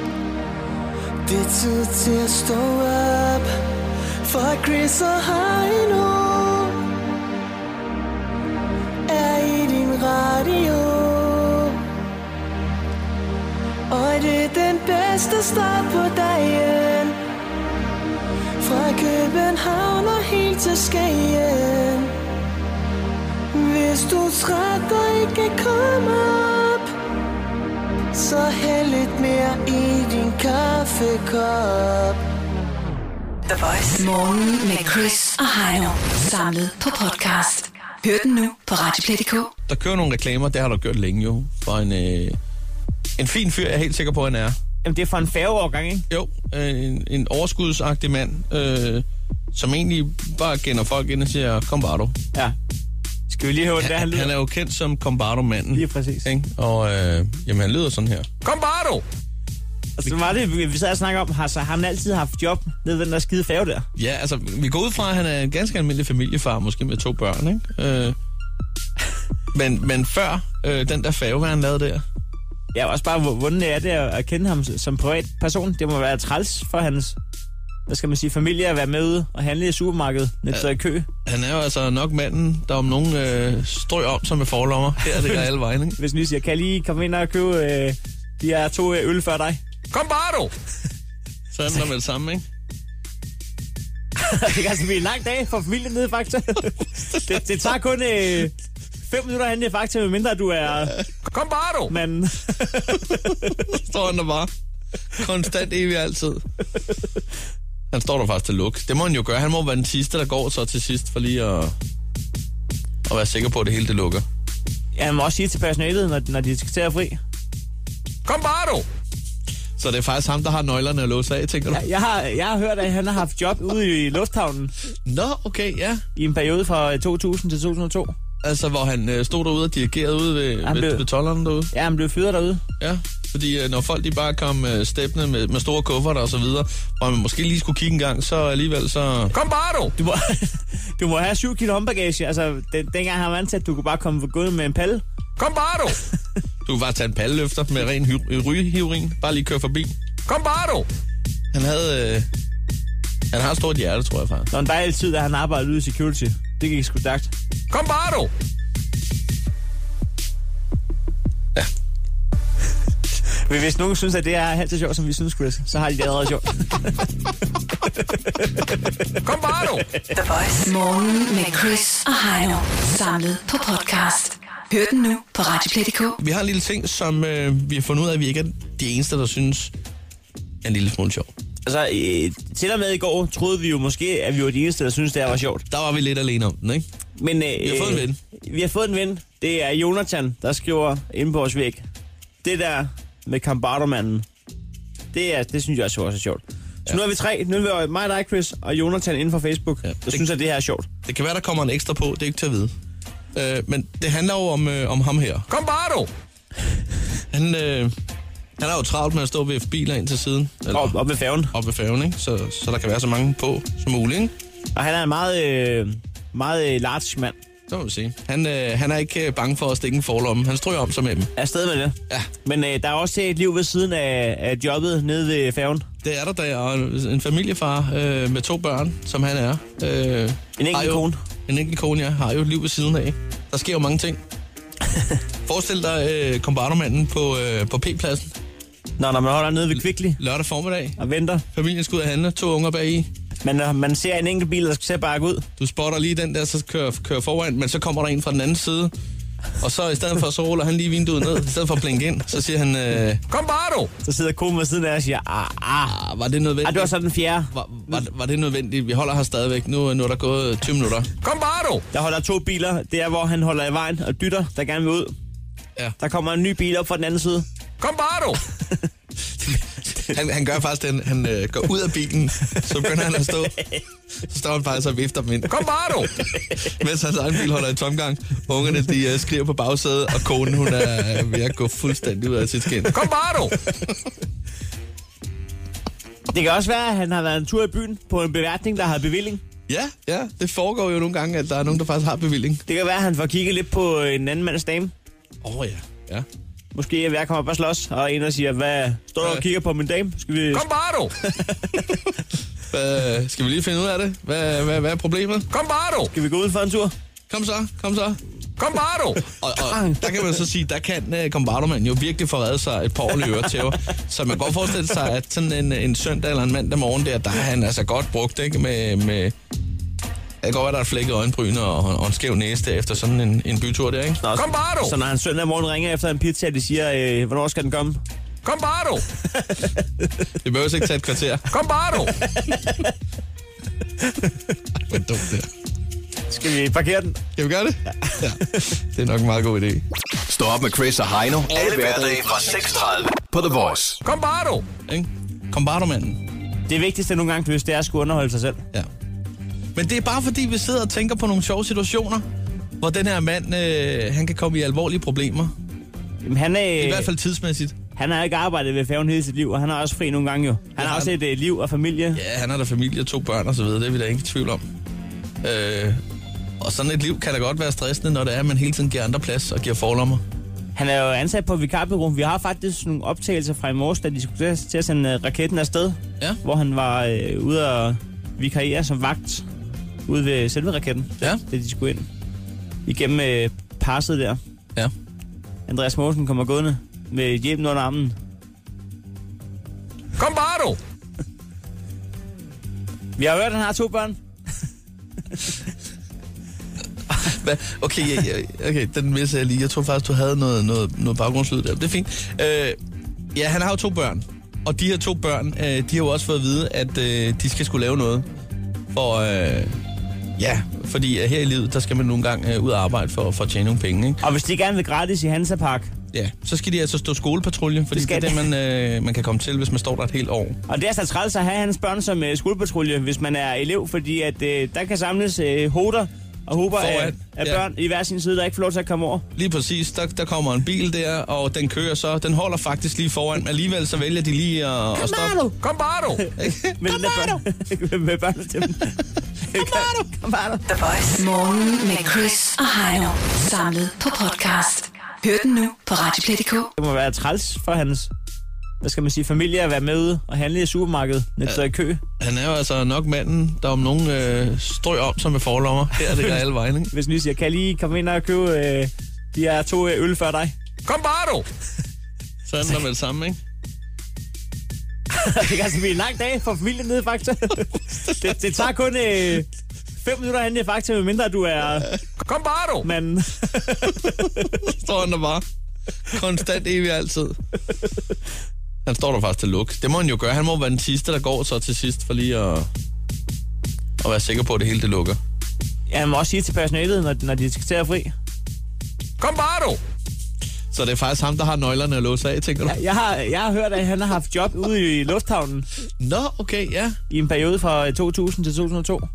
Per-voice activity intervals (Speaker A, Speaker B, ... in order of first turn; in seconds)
Speaker A: 1.2-3.5, 4.2-6.8, 9.1-11.8, 13.9-17.2, 18.6-22.1, 23.5-26.9, 28.1-32.2
Speaker B: 33.5-39.5, 170.2-176.2, 441.0-446.7
Speaker C: 39.7-42.4, 43.2-44.6, 46.1-52.2, 53.8-58.3, 64.0-68.2, 69.5-72.0, 81.2-86.0, 91.5-92.5, 103.1-104.5, 105.1-106.4, 107.9-111.8, 113.0-114.2, 119.8-121.9, 125.1-126.0, 128.4-131.7, 132.8-139.4, 146.7-149.9, 151.5-152.3, 153.3-154.5, 176.2-179.7, 180.6-181.3, 185.7-186.8, 187.6-188.2, 199.8-200.2, 201.1-202.7, 203.3-205.5, 207.3-207.9, 208.6-211.0, 211.5-214.3, 217.7-221.3, 226.0-234.2, 235.5-238.3, 240.2-241.0, 241.5-243.1, 245.6-248.9, 249.6-253.2, 255.9-256.9, 257.5-261.1, 269.4-273.6, 274.3-284.1, 289.7-292.6, 295.4-296.3, 302.7-305.5, 307.3-308.2, 309.2-319.3, 320.4-324.2, 330.4-331.6, 334.9-335.5, 337.4-339.9, 341.8-342.2, 344.6-346.2, 349.8-352.2, 352.8-355.5, 356.8-357.8, 360.8-361.2, 362.1-364.6, 365.4-366.0, 366.6-370.2, 397.1-402.8, 403.4-408.3, 408.9-409.8, 410.4-414.2, 416.1-420.6, 426.7-427.6, 429.4-435.4, 436.4-436.8, 452.2-456.9, 462.5-463.4, 474.5-475.4, 476.1-477.4, 478.9-482.7, 484.0-485.2, 490.7-492.8, 496.0-497.0
Speaker D: 44.8-46.1, 53.3-54.3, 55.7-56.3, 60.0-63.9, 72.7-77.2, 77.9-81.1, 86.0-89.6, 94.2-101.0, 101.7-103.6, 115.0-117.2, 121.7-124.7, 126.2-128.1, 130.6-131.1, 131.7-132.6, 139.9-145.0, 154.5-157.3, 163.4-167.1, 168.1-168.7, 169.3-170.1, 181.7-185.7, 187.2-191.9, 192.4-194.2, 195.1-200.9, 210.7-211.5, 214.7-217.4, 221.4-225.8, 230.6-231.2, 239.0-240.2, 241.0-241.4, 243.4-245.5, 254.0-256.0, 256.6-258.0, 261.9-265.1, 266.0-267.5, 286.3-289.4, 292.7-294.9, 296.7-302.1, 305.9-306.9, 324.2-328.0, 328.9-329.7, 331.9-332.9, 336.3-337.2, 346.7-348.6, 356.2-357.1, 357.9-362.2, 370.8-379.5, 380.1-382.1, 382.9-384.4, 385.7-388.1, 393.2-394.2, 414.2-415.9, 417.9-418.4, 420.7-429.2, 435.0-441.0, 446.8-448.1, 448.8-452.0, 456.9-460.6, 465.1-472.0, 472.7-474.7, 485.9-488.1, 492.7-495.7, 497.1-499.1
Speaker E: 340.3-344.0